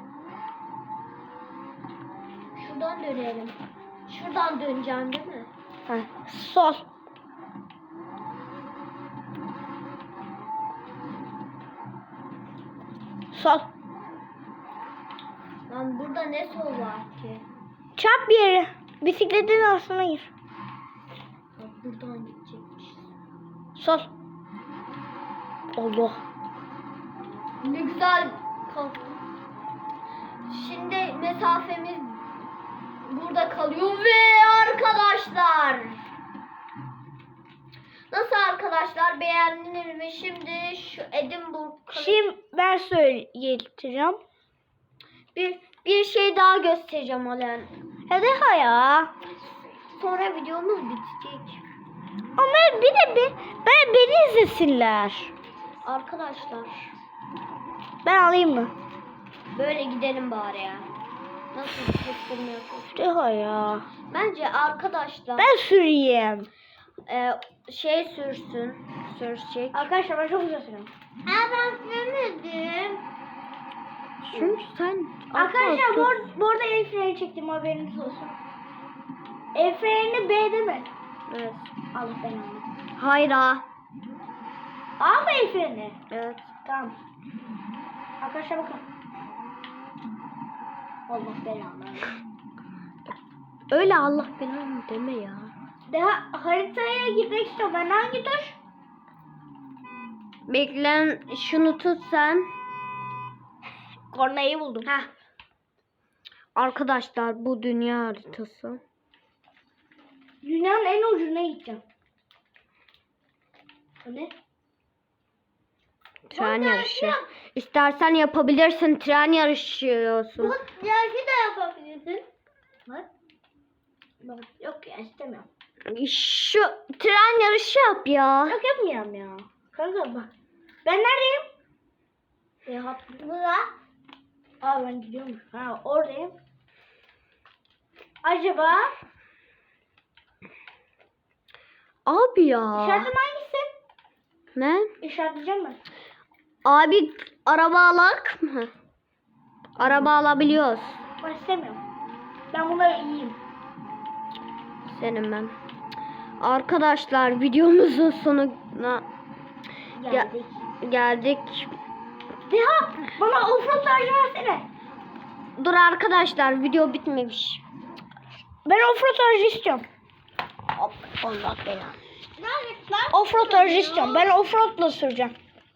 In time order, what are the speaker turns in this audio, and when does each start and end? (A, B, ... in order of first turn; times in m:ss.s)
0:02.6-0:03.6 A
0:04.1-0:05.5 A
0:05.9-0:06.8 B
0:13.3-0:13.7 B
0:15.7-0:17.4 A
0:18.0-0:20.3 B
0:21.6-0:23.1 A
0:23.8-0:24.1 B
0:25.8-0:26.2 B
0:27.6-0:29.2 A
0:30.5-0:32.2 A
0:33.0-0:36.0 A
0:38.1-0:42.2 A
0:41.9-0:44.2 B
0:45.4-0:47.7 A
0:48.1-0:49.1 B
0:50.0-0:51.6 A
0:52.4-0:55.3 B
0:55.8-0:56.9 A
0:58.0-0:58.7 B
0:59.5-1:00.9 A
1:01.5-1:03.0 A
1:02.9-1:03.8 B
1:04.1-1:05.6 A
1:05.4-1:06.5 B
1:07.1-1:09.9 A
1:09.7-1:10.9 B
1:11.3-1:13.0 A
1:14.2-1:16.3 A
1:15.3-1:18.4 B
1:19.6-1:20.9 B
1:21.3-1:21.7 A
1:21.9-1:22.7 B
1:23.0-1:23.6 A
1:25.0-1:26.0 B
1:26.1-1:26.5 A
1:26.6-1:27.0 B
1:28.2-1:28.8 B
1:31.1-1:32.2 B
1:33.7-1:35.5 A
1:35.9-1:38.6 B
1:40.5-1:42.5 A
1:44.1-1:44.9 B
1:46.6-1:48.8 A
1:50.4-1:51.8 B
1:54.0-1:54.3 B
1:56.3-2:00.6 A
1:56.3-1:57.3 B
2:00.4-2:02.2 B
2:04.2-2:05.5 B
2:05.9-2:08.6 A
2:08.5-2:10.3 B
2:10.8-2:11.5 B
2:12.7-2:13.7 B
2:14.6-2:16.3 B
2:18.2-2:18.9 B
2:22.1-2:23.1 A
2:22.7-2:23.7 B
2:24.6-2:24.9 A
2:25.0-2:25.8 B
2:26.6-2:28.7 A
2:29.8-2:31.0 A
2:29.8-2:30.1 B
2:31.2-2:31.8 B
2:32.5-2:33.4 B
2:34.9-2:35.5 A
2:36.4-2:39.1 A
2:40.0-2:40.6 B
2:40.8-2:41.7 A
2:42.5-2:44.7 B
2:45.6-2:47.6 A
2:48.6-2:49.8 B
2:50.8-2:51.9 A
2:51.5-2:51.9 B
2:52.4-2:54.3 A
2:53.1-2:55.4 B